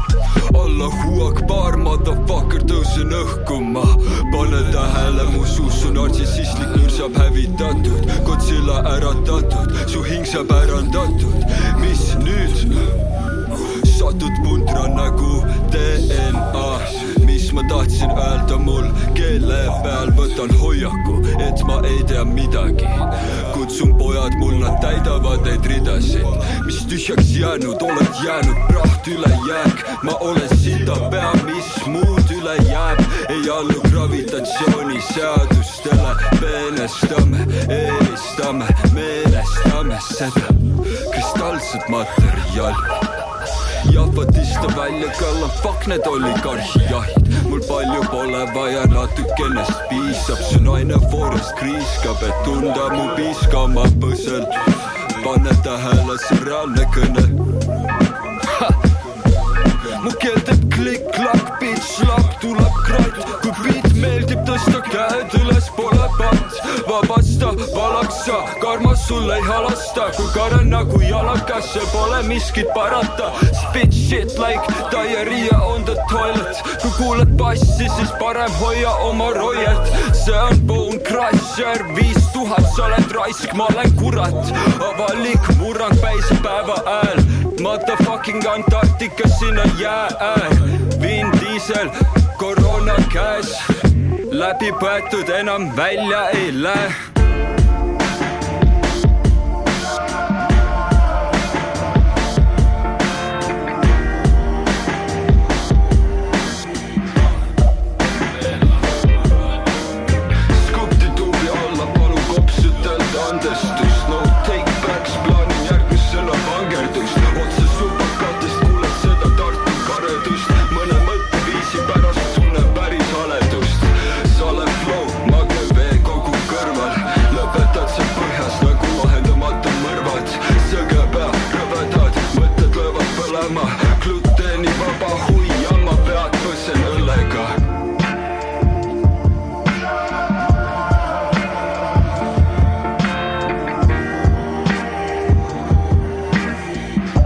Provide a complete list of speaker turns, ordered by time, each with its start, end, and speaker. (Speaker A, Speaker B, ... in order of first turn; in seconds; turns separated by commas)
Speaker A: 0.5-12.9, Speaker A: 13.6-40.6, Speaker A: 41.1-42.8, Speaker A: 43.8-57.4, Speaker A: 58.4-93.7, Speaker A: 94.3-96.9, Speaker A: 110.5-137.6